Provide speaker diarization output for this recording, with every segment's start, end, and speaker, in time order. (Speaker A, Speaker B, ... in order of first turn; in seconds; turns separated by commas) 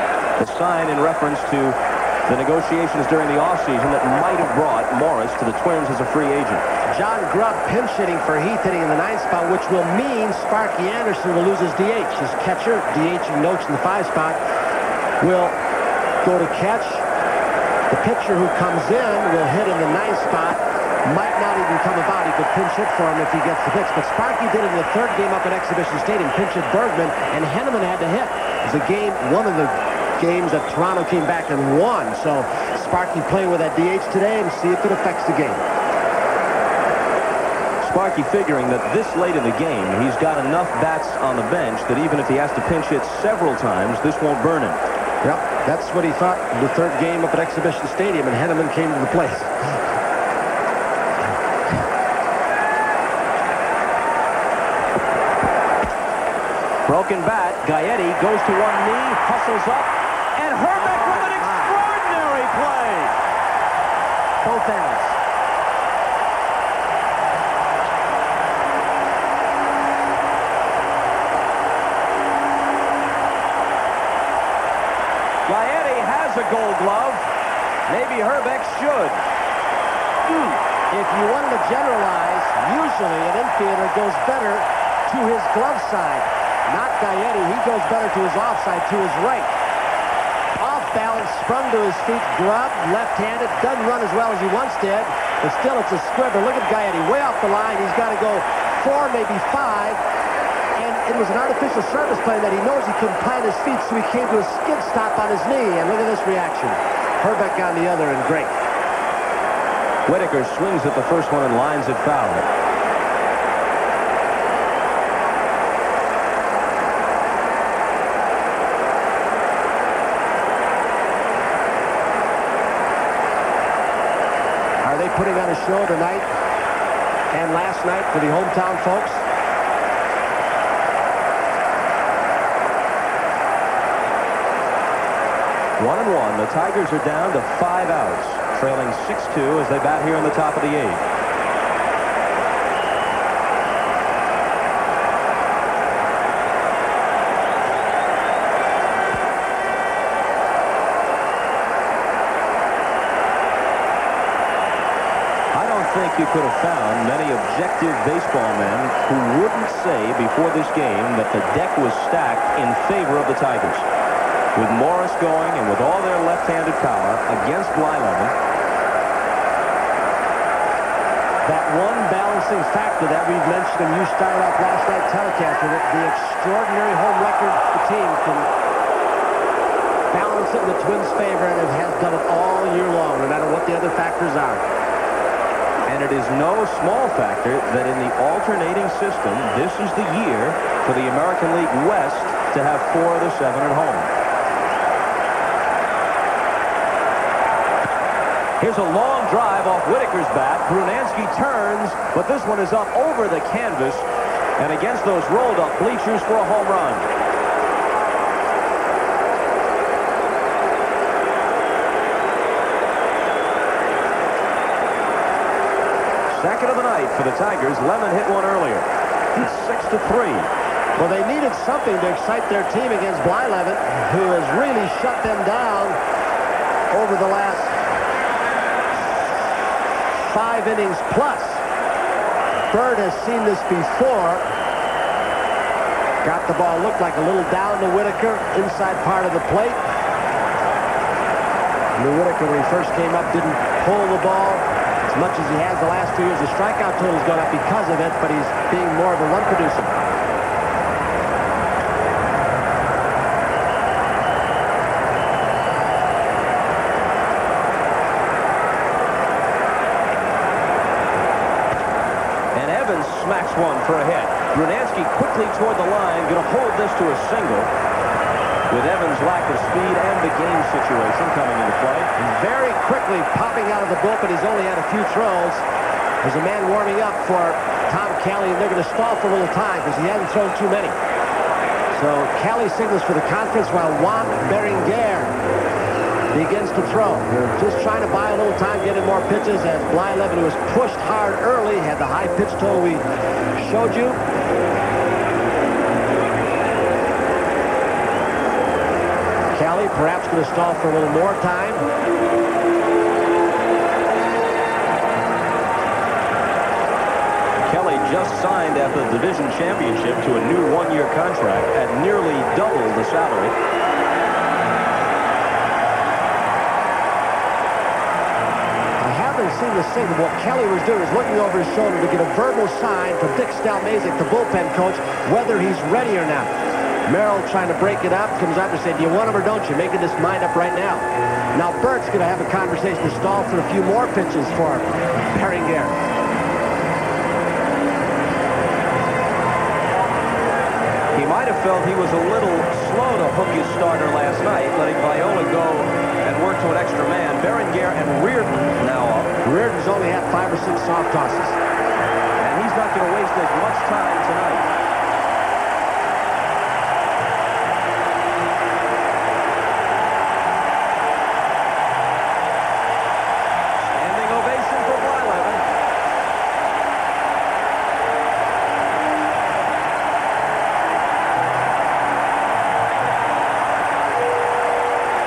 Speaker A: 0.4-1.8, Speaker A: 2.3-6.7, Speaker B: 6.9-14.4, Speaker B: 15.2-15.6, Speaker B: 16.2-17.1, Speaker B: 17.9-35.6, Speaker A: 37.8-44.8, Speaker B: 45.2-49.5, Speaker A: 56.9-63.1, Speaker B: 60.7-61.8, Speaker B: 64.4-65.2, Speaker A: 75.5-77.3, Speaker A: 77.9-79.2, Speaker B: 80.9-89.5, Speaker B: 90.6-100.0, Speaker B: 100.8-108.6, Speaker A: 110.0-112.5, Speaker B: 124.8-126.3, Speaker B: 127.3-129.2, Speaker A: 135.8-141.0, Speaker A: 155.5-163.8, Speaker A: 164.5-168.3, Speaker B: 171.4-178.5, Speaker B: 180.1-184.6, Speaker A: 185.9-194.1, Speaker A: 198.6-204.1, Speaker A: 204.6-207.1, Speaker A: 216.3-220.5, Speaker B: 220.9-226.0, Speaker B: 226.9-227.8, Speaker B: 229.0-229.5, Speaker B: 230.1-231.6, Speaker B: 232.7-234.4, Speaker B: 236.2-239.8, Speaker B: 241.9-250.0, Speaker A: 262.5-267.7, Speaker A: 268.7-272.1, Speaker B: 272.2-275.6, Speaker B: 276.2-281.0, Speaker B: 281.9-285.4, Speaker B: 286.3-293.0, Speaker B: 293.6-294.2, Speaker B: 299.5-301.9, Speaker A: 307.6-313.6, Speaker B: 319.0-336.0, Speaker A: 341.1-349.3, Speaker B: 349.4-351.6, Speaker A: 352.4-354.7, Speaker A: 363.8-365.7